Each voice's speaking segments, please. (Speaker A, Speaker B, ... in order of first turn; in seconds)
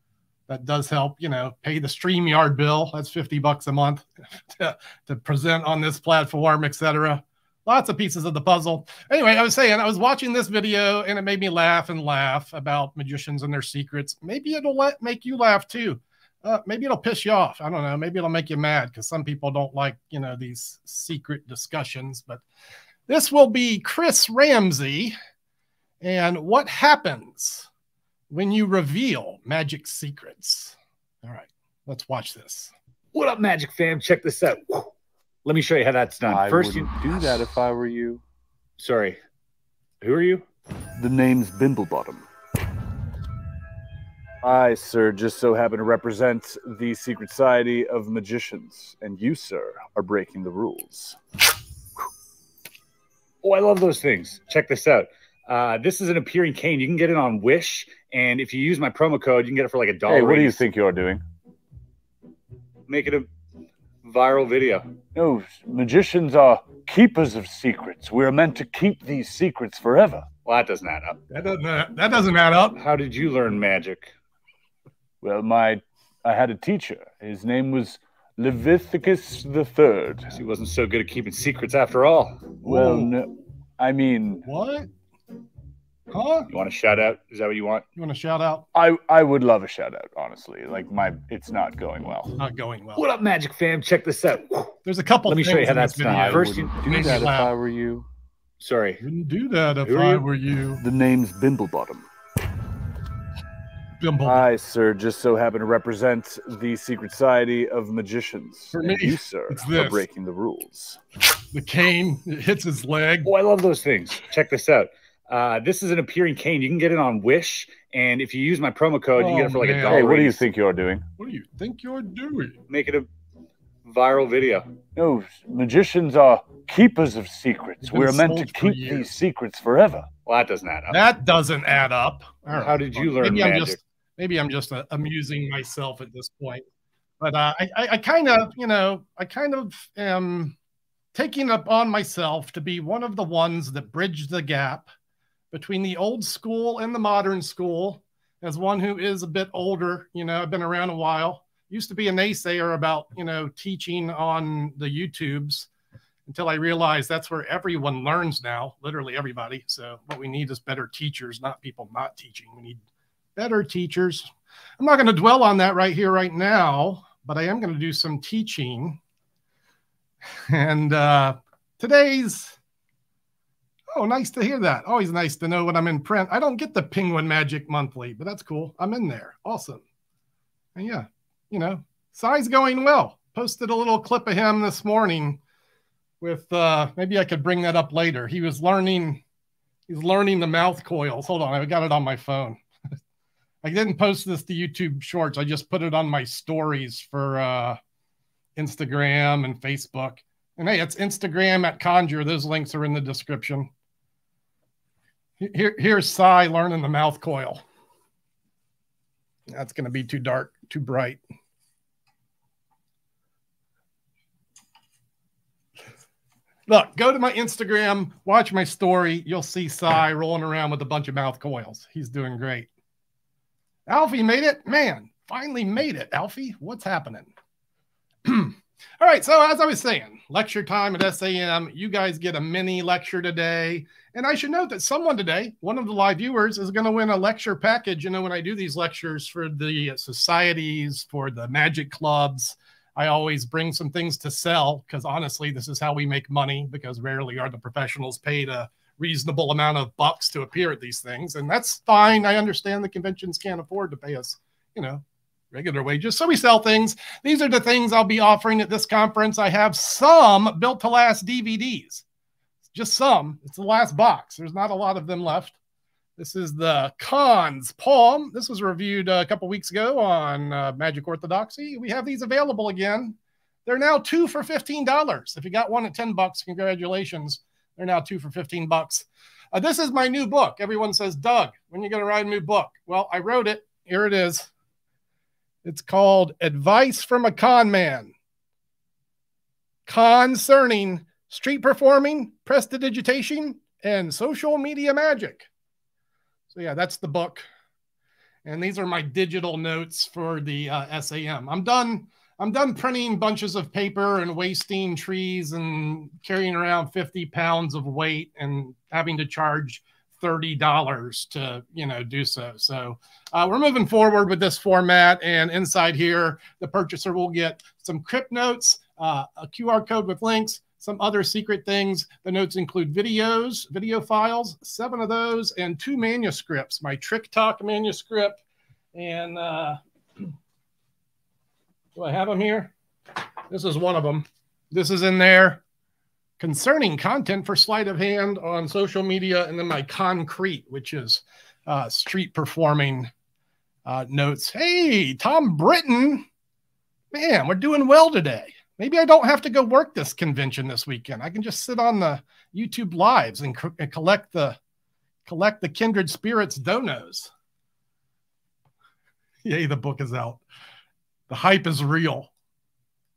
Speaker A: 0.5-22.4, 23.1-25.2, 26.0-27.7, 28.3-32.7, 71.3-72.8, 82.7-83.1, 84.5-84.9, 86.1-86.5, 88.0-88.7, 92.4-93.0, 94.8-97.5, 99.0-100.8, 104.0-104.5, 108.7-110.0, 111.5-113.3, 119.2-120.2, 121.2-122.6, 127.8-129.1, 130.9-136.6, 137.2-140.6, 141.1-144.9, 145.5-155.7, 156.3-162.8, 163.3-169.0, 170.5-172.6, 173.9-179.8, 180.7-185.4, 186.2-189.2, 189.9-192.6, 193.6-197.8, 198.6-203.7, 205.4-207.6, 209.5-211.2, 216.7-222.7, 223.9-227.3, 228.2-262.0, 262.7-265.6, 266.2-284.5, 285.6-288.1, 289.9-295.5, 296.5-297.4, 298.4-328.4, 328.9-330.3, 331.9-332.7, 333.5-335.6, 336.4-343.1, 343.8-346.2, 347.1-354.6, 355.2-357.3, 359.4-360.4, 361.3-362.3
Speaker B: 33.1-34.9, 35.4-37.4, 38.8-39.2, 40.0-40.4, 53.4-60.6, 62.9-63.3, 64.0-64.8, 70.5-71.2, 72.8-74.1, 80.3-82.6, 86.5-87.8, 93.0-94.7, 95.3-97.2, 98.6-99.0, 99.8-100.2, 113.2-120.4, 122.7-123.1, 123.8-124.7, 130.3-131.0, 132.5-133.8
Speaker C: 36.2-38.2, 41.0-42.3, 44.4-51.2, 60.1-61.2, 65.2-70.3, 75.2-80.3, 82.6-84.5, 88.7-92.3, 96.1-98.0, 100.8-102.1, 104.2-111.0, 119.8-121.0, 125.0-130.1